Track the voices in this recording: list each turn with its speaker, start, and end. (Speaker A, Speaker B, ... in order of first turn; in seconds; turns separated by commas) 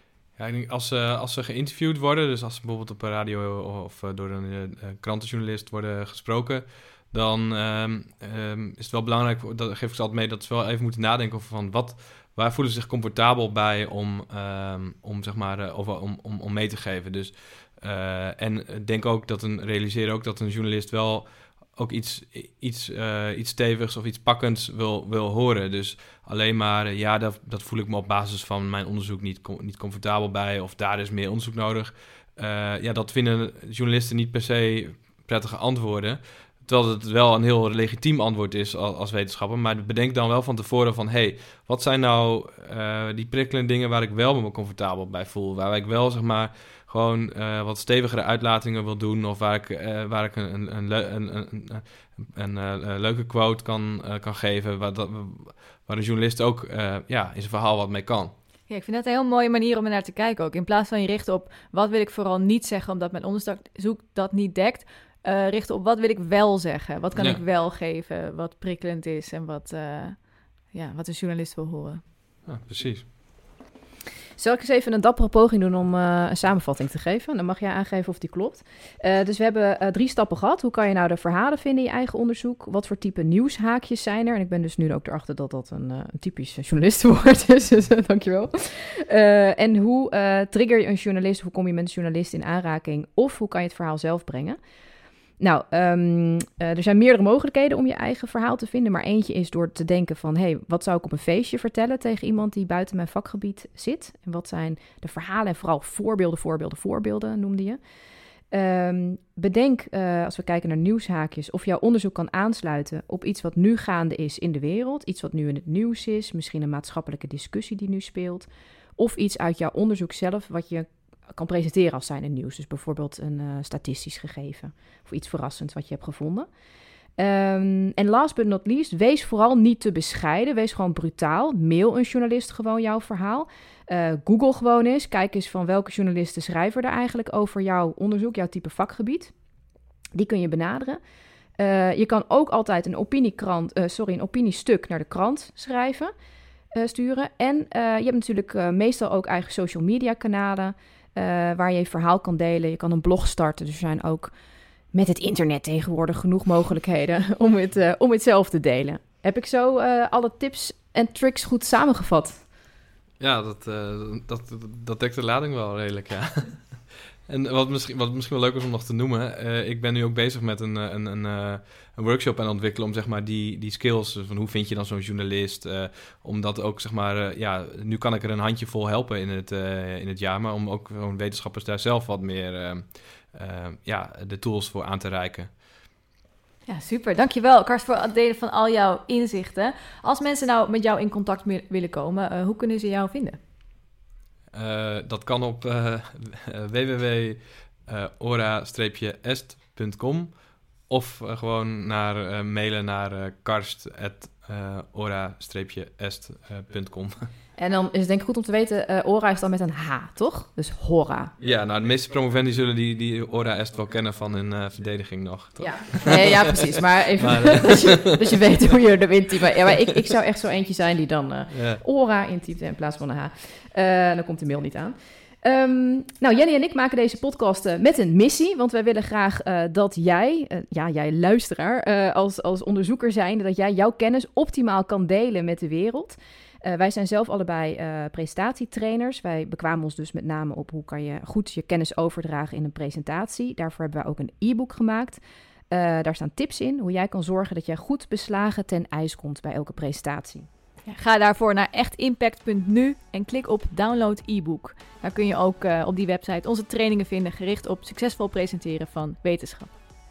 Speaker A: 0.4-58.3, Speaker B: 58.7-72.0, Speaker A: 67.2-67.4, Speaker A: 72.5-73.1, Speaker C: 74.4-94.6, Speaker C: 95.4-107.8, Speaker C: 108.5-126.5, Speaker C: 127.2-139.3, Speaker C: 140.2-141.0, Speaker C: 141.6-146.1, Speaker C: 146.7-154.3, Speaker C: 154.9-162.5, Speaker A: 163.2-185.5, Speaker B: 186.7-193.4, Speaker A: 194.5-207.3, Speaker C: 207.6-211.3, Speaker A: 211.4-218.1, Speaker C: 215.6-250.5, Speaker A: 221.5-221.8, Speaker B: 250.9-259.9